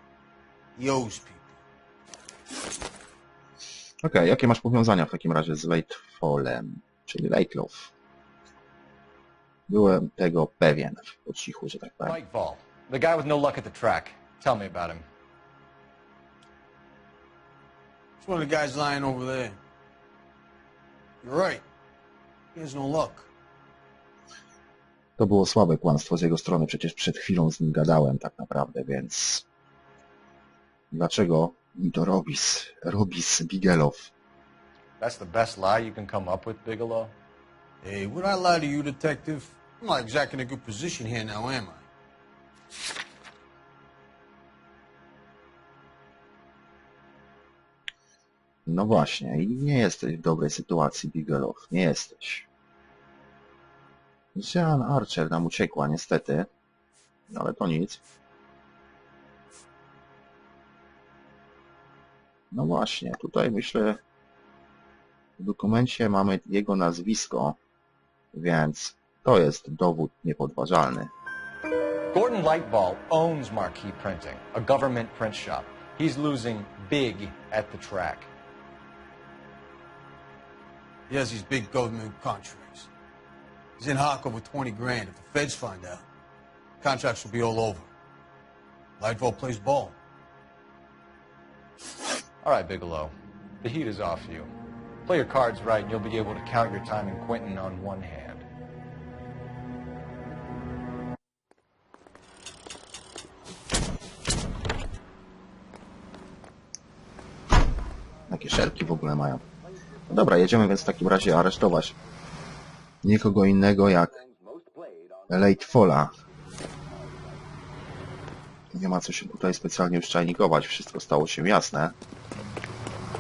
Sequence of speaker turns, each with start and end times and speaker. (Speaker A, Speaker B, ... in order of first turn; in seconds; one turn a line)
Speaker A: 0.8-1.6
Speaker B: 4.0-7.9
Speaker B: 9.7-12.2
Speaker C: 12.0-15.1
Speaker A: 18.2-19.6
Speaker A: 21.2-21.6
Speaker A: 22.6-23.3
Speaker B: 25.2-29.4
Speaker B: 30.9-34.1
Speaker C: 35.0-37.1
Speaker A: 37.8-41.9
Speaker B: 48.6-52.5
Speaker B: 54.4-56.5
Speaker B: 57.3-58.0
Speaker B: 62.5-64.0
Speaker B: 65.4-67.6
Speaker B: 68.3-71.1
Speaker C: 72.1-78.3
Speaker A: 81.1-82.9
Speaker A: 83.8-86.0
Speaker A: 86.8-87.9
Speaker A: 89.0-90.0
Speaker C: 92.4-94.5
Speaker C: 95.1-98.5
Speaker B: 108.3-109.4
Speaker B: 110.1-111.9
Speaker B: 113.0-114.2
Speaker B: 115.3-116.1
Speaker B: 118.7-121.9